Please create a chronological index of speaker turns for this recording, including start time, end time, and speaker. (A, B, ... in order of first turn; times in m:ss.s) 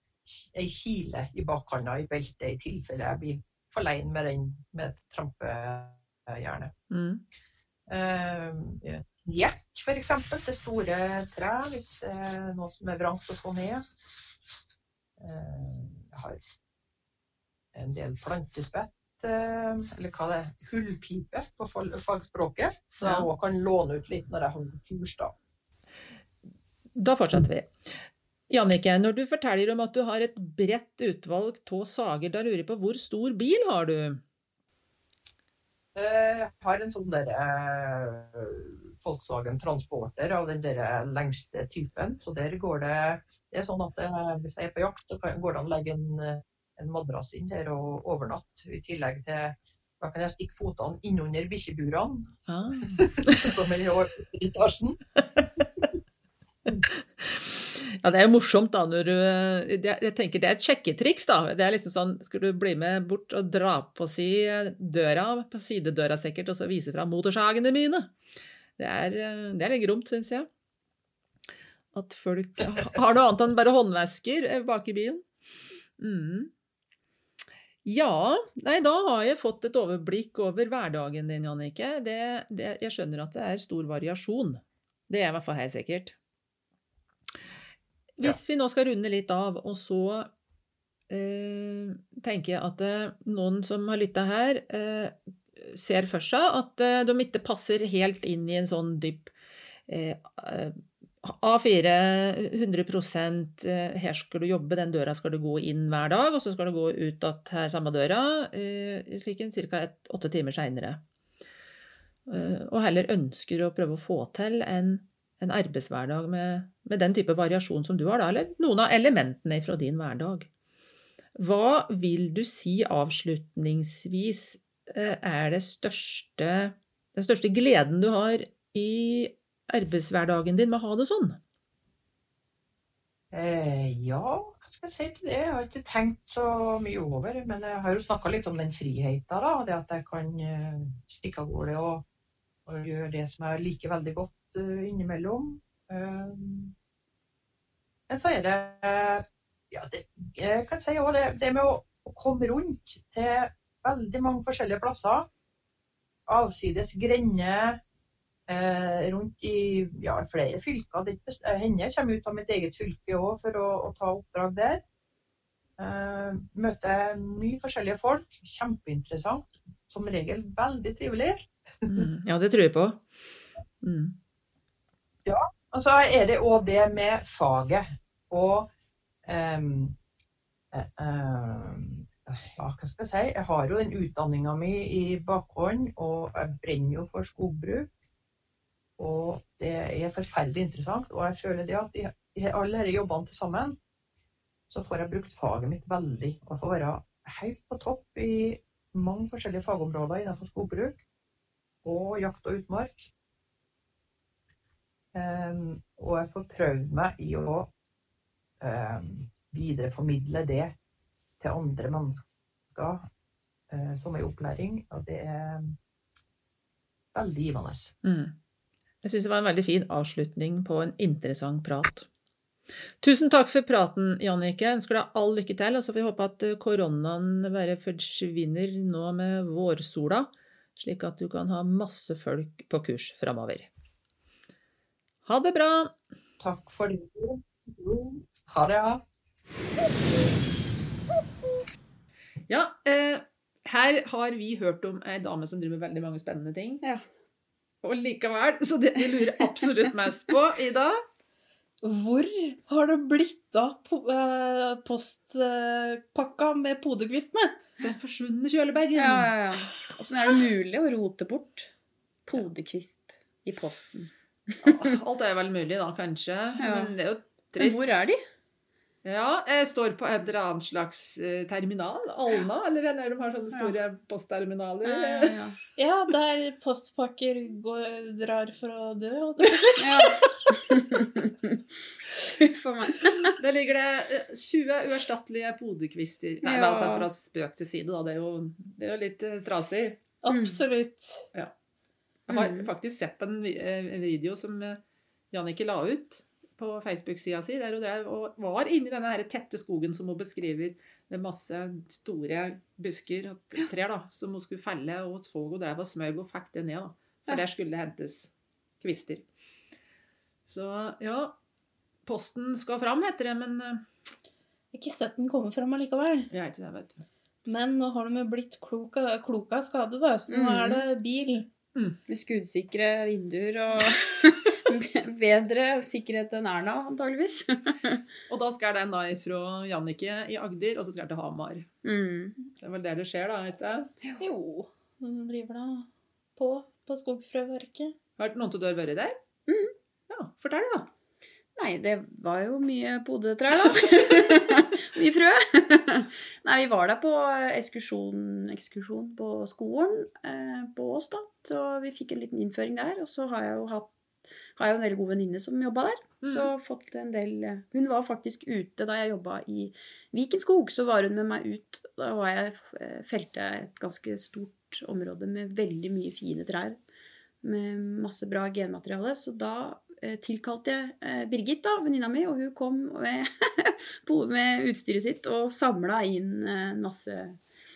0:00.3-0:06.7 A
0:06.9-0:07.2 B
0:07.9-0:13.8 A
0:15.2-0:16.4 A
0:17.7-0:25.3 A
0:23.0-0:23.3 B
0:27.0-0:27.7 B
0:28.5-0:34.2 B
0:36.0-0:55.0 A
0:52.5-0:53.5 B
0:56.7-1:08.1 B
1:08.8-1:10.5 B
1:11.9-1:15.2 B
1:16.0-1:16.5 B
1:17.8-1:26.2 B
1:28.2-1:30.3 B
1:31.1-1:39.3 B
1:39.9-1:51.0 B
1:52.3-2:00.5 B
2:01.4-2:11.4 B
2:13.3-2:22.0 A
2:22.7-2:26.7 A
2:28.1-2:35.3 A
2:36.3-2:37.8 A
2:38.5-2:44.8 A
2:45.8-2:52.1 A
2:51.9-2:53.1 B
2:53.8-2:54.1 B
2:55.3-2:58.7 A
2:59.3-3:00.0 A
3:00.7-3:07.9 A
3:09.0-3:13.8 A
3:14.7-3:21.0 A
3:21.8-3:23.1 A
3:25.1-3:27.7 A
3:28.6-3:30.7 A
3:31.4-3:33.1 A
3:33.7-3:35.8 A
3:37.1-3:37.9 A
3:38.0-3:38.4 B
3:39.0-3:42.1 B
3:43.0-3:53.7 B
3:55.2-3:55.9 B
3:56.4-3:59.0 A
4:02.5-4:06.8 B
4:07.8-4:11.0 B
4:11.8-4:17.6 C
4:17.8-4:19.4 B
4:19.0-4:21.7 D
4:22.3-4:25.0 D
4:24.6-4:27.9 B
4:26.6-4:26.9 D
4:27.6-4:28.2 D
4:29.0-4:35.4 B
4:34.8-4:35.6 D
4:35.8-4:40.2 C
4:39.8-4:41.6 D
4:42.1-4:43.4 D
4:43.2-4:50.2 B
4:46.4-4:47.1 D
4:50.2-4:51.3 C
4:50.3-4:50.6 D
4:52.3-5:09.3 B
4:52.3-4:52.7 D
5:10.5-5:11.4 B
5:12.0-5:13.8 B
5:14.7-5:16.3 C
5:16.3-5:17.0 B
5:17.4-5:21.5 C
5:20.3-5:20.9 D
5:22.1-5:28.0 D
5:28.3-5:31.7 B
5:31.8-5:32.4 D
5:32.4-5:33.9 B
5:34.2-5:38.0 C
5:38.2-5:39.2 B
5:39.5-5:39.7 D
5:40.1-5:40.9 B
5:41.6-5:53.9 D
5:54.6-6:06.8 D
5:56.2-5:56.5 B
6:07.4-6:17.4 D